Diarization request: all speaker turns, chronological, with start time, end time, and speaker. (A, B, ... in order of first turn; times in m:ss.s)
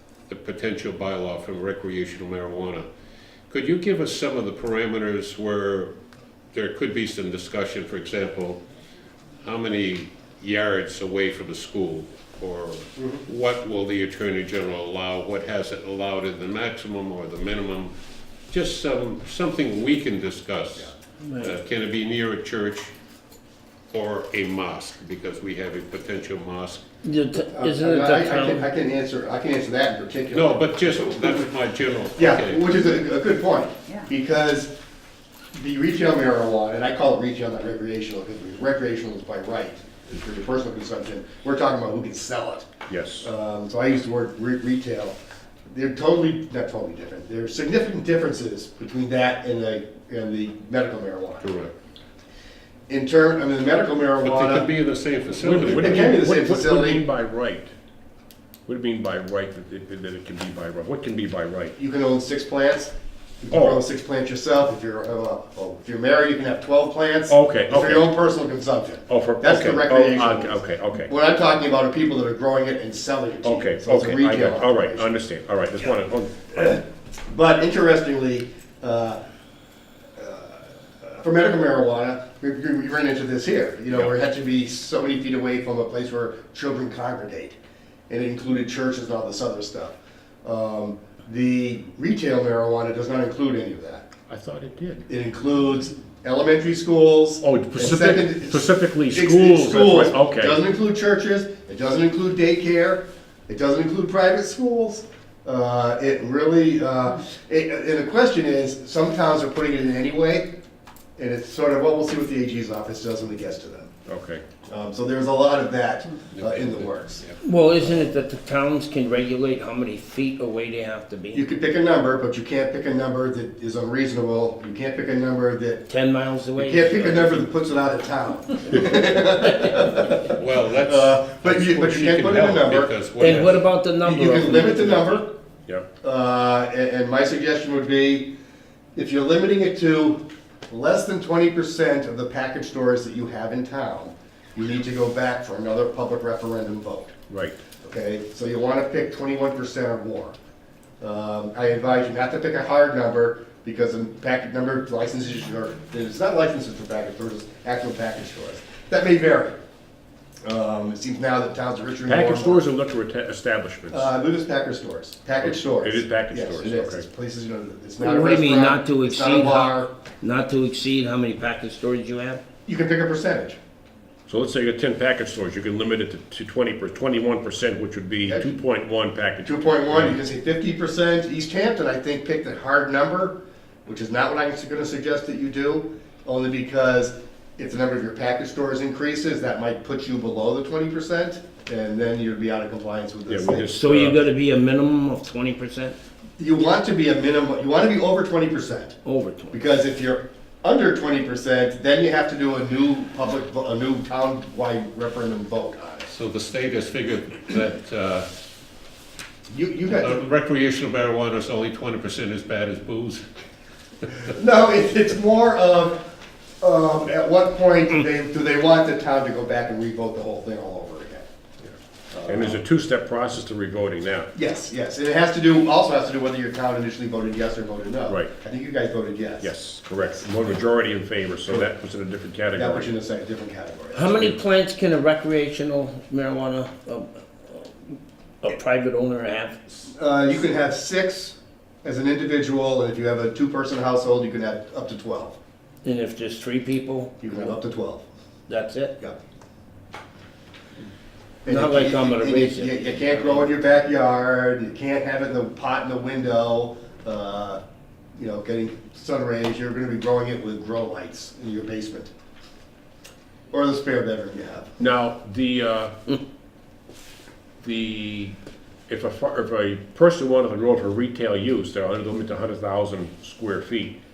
0:00.3-0:02.9 A
0:03.5-0:05.9 A
0:06.5-0:08.6 A
0:09.4-0:17.9 A
0:13.0-0:13.2 B
0:18.5-0:22.9 A
0:21.2-0:21.5 C
0:23.9-0:26.8 A
0:27.0-0:28.7 C
0:27.5-0:31.5 B
0:30.3-0:32.7 A
0:32.2-0:34.7 B
0:35.6-0:42.7 B
0:42.9-0:43.3 D
0:43.2-0:45.2 B
0:45.7-0:51.7 B
0:51.4-0:51.7 A
0:52.9-0:54.7 B
0:54.2-0:56.1 A
0:55.4-0:57.7 D
0:55.7-0:57.0 B
0:58.7-1:01.8 D
1:01.8-1:15.1 B
1:03.5-1:03.8 D
1:07.3-1:08.2 D
1:09.1-1:11.1 D
1:13.4-1:16.6 D
1:16.5-1:19.2 B
1:20.2-1:27.6 B
1:28.1-1:34.1 B
1:34.3-1:35.1 D
1:35.1-1:50.6 B
1:37.4-1:40.6 D
1:51.2-1:53.9 B
1:54.1-1:54.4 D
1:54.7-1:57.3 B
1:56.3-1:57.4 A
1:57.4-2:01.4 C
1:57.8-1:58.1 B
2:01.3-2:05.9 B
2:05.9-2:07.4 C
2:06.6-2:13.2 B
2:10.4-2:13.7 A
2:13.2-2:15.2 C
2:14.0-2:15.4 B
2:16.0-2:18.3 B
2:19.0-2:27.1 B
2:27.3-2:27.6 D
2:27.8-2:30.4 B
2:31.0-2:39.6 B
2:40.4-2:42.6 B
2:42.1-2:44.1 D
2:43.9-2:49.9 B
2:45.4-2:47.1 D
2:48.0-2:52.4 C
2:52.7-2:53.6 B
2:54.3-3:00.2 D
2:58.3-2:58.5 B
2:59.4-3:13.7 B
3:13.3-3:14.2 D
3:13.7-3:16.0 C
3:16.4-3:19.0 B
3:19.0-3:19.7 C
3:19.5-3:26.1 B
3:26.1-3:28.3 A
3:29.5-3:30.2 B
3:29.9-3:33.3 A
3:34.3-3:36.0 B
3:36.6-3:41.3 B
3:42.1-3:42.6 B
3:42.3-3:44.3 D
3:44.3-3:50.3 B
3:48.1-3:48.3 D
3:49.4-3:52.9 D
3:52.5-3:54.2 B
3:53.9-3:59.7 C
3:59.9-4:05.4 B
4:05.8-4:07.4 C
4:07.2-4:08.0 B
4:08.5-4:09.0 C
4:11.4-4:17.6 B
4:11.5-4:13.4 C
4:18.2-4:22.1 B
4:23.5-4:24.7 B
4:24.8-4:26.0 D
4:27.6-4:28.4 D
4:28.9-4:34.0 D